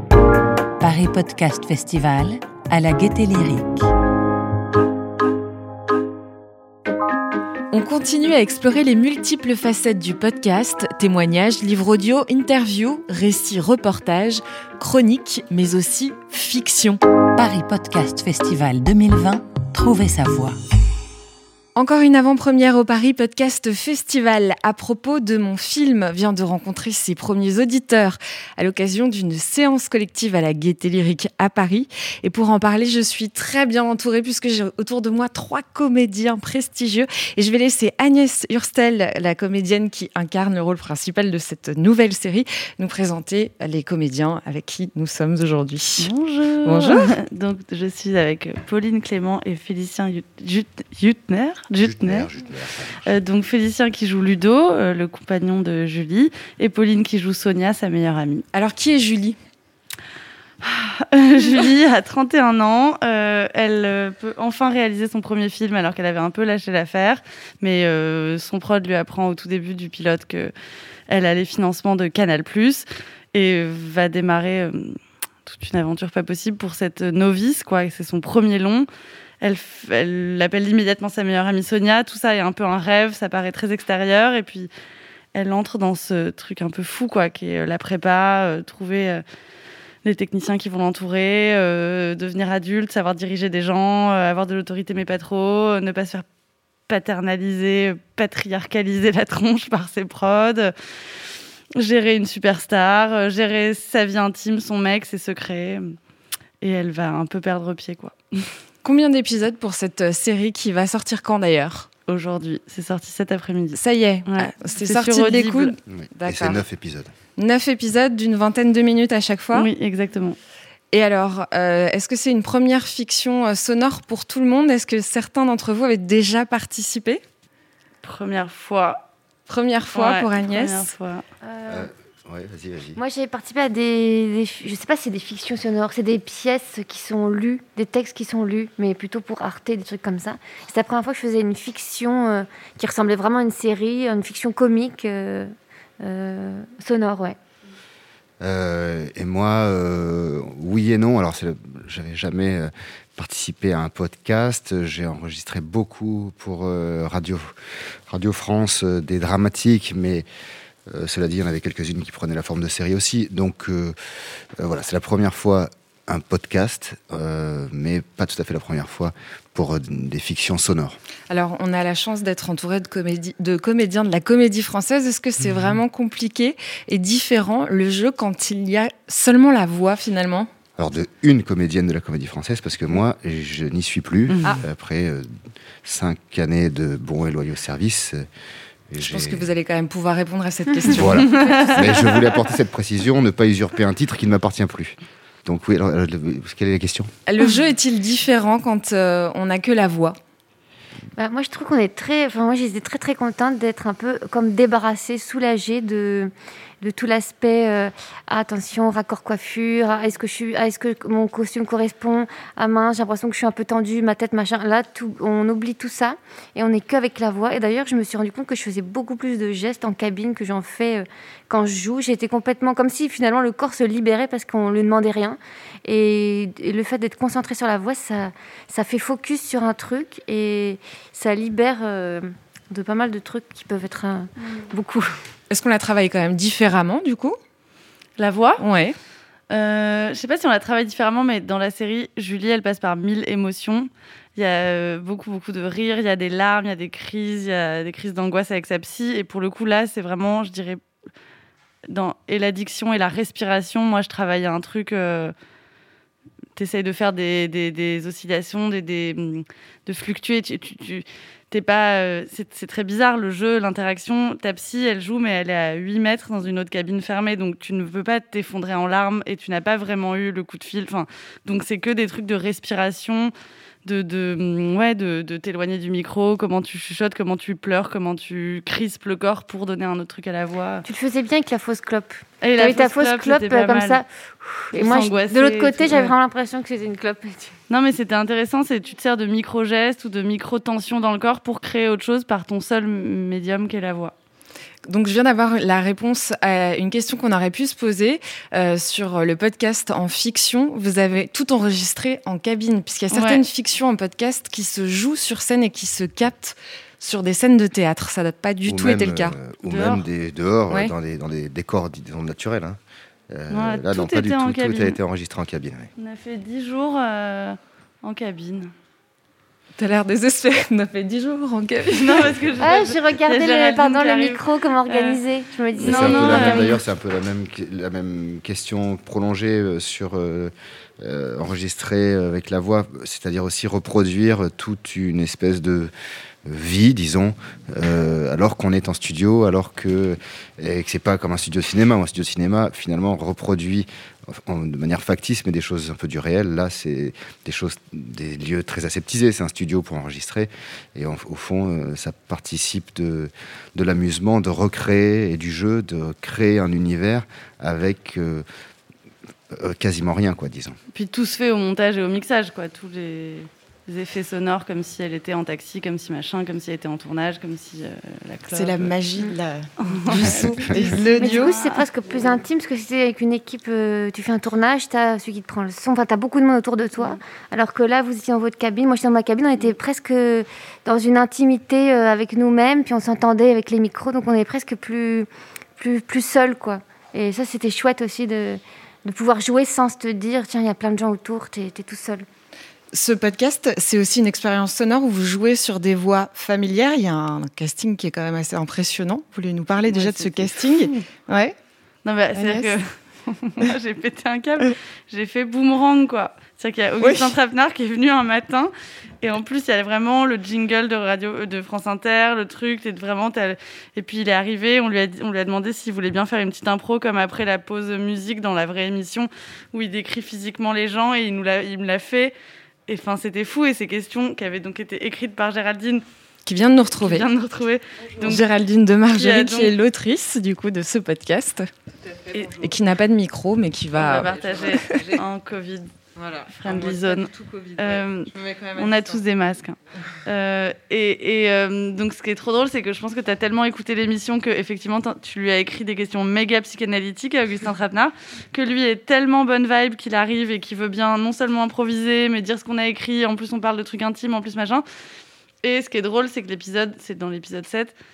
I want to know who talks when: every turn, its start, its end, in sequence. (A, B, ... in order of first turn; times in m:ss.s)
0:00.8-0:03.9 A
0:07.7-0:17.0 B
0:17.4-0:20.6 A
0:21.7-0:46.1 B
0:46.0-0:52.3 C
0:46.6-0:47.1 B
0:51.8-0:53.1 D
0:53.0-0:58.4 C
0:58.5-0:59.4 B
1:00.6-1:10.5 C
1:11.1-1:18.9 C
1:19.4-1:24.7 C
1:25.3-1:29.2 C
1:30.0-1:36.2 C
1:36.9-1:40.7 C
1:41.8-1:46.0 C
1:46.6-1:48.5 C
1:48.8-1:51.9 B
1:52.1-1:55.7 C
1:53.7-1:56.6 B
1:55.9-1:57.1 D
1:57.4-1:59.7 B
1:59.5-2:00.4 C
2:00.9-2:07.2 B
2:08.0-2:09.0 C
2:09.5-2:10.9 B
2:09.9-2:11.2 C
2:11.4-2:11.9 E
2:11.7-2:13.0 D
2:13.0-2:27.4 E
2:28.4-2:37.5 D
2:38.1-2:40.2 D
2:40.9-2:43.9 D
2:44.6-2:51.0 D
2:51.3-3:00.5 B
3:00.8-3:05.3 D
3:05.8-3:08.3 D
3:08.9-3:09.5 D
3:09.0-3:12.1 B
3:10.9-3:17.1 D
3:11.2-3:11.9 C
3:17.2-3:20.1 B
3:21.2-3:55.1 E
3:55.5-3:57.3 B
3:58.2-3:58.6 C
3:58.6-3:58.9 B
3:59.5-4:10.8 C
4:11.9-4:15.3 C
4:16.6-4:33.3 C
4:33.8-4:40.9 C
4:40.8-4:47.5 E
4:42.4-4:44.0 C
4:44.7-4:46.1 C
4:47.7-4:54.1 C
4:54.8-5:09.4 B
5:03.1-5:03.4 C
5:08.6-5:15.9 D
5:09.6-5:10.0 C
5:13.5-5:15.0 C
5:16.0-5:18.7 C
5:19.8-5:22.4 B
5:22.0-5:25.2 C
5:22.6-5:26.8 E
5:25.8-5:26.7 C
5:25.8-5:35.9 D
5:36.4-5:58.4 D
5:59.5-6:00.8 D
6:00.9-6:08.9 C
6:08.5-6:11.4 B
6:09.8-6:11.8 C
6:10.9-6:11.4 F
6:11.0-6:32.2 E
6:32.9-6:41.5 B
6:39.9-6:41.0 C
6:42.0-7:02.3 C
6:42.3-6:42.7 B
6:47.0-6:47.3 B
7:02.9-7:06.0 C
7:06.4-7:07.3 B
7:07.0-7:08.4 C
7:08.2-7:11.6 B
7:09.1-7:09.7 C
7:12.6-7:15.1 B
7:13.9-7:15.9 C
7:14.3-7:15.0 F
7:16.2-7:19.2 F
7:16.5-7:34.8 C
7:35.6-7:37.9 C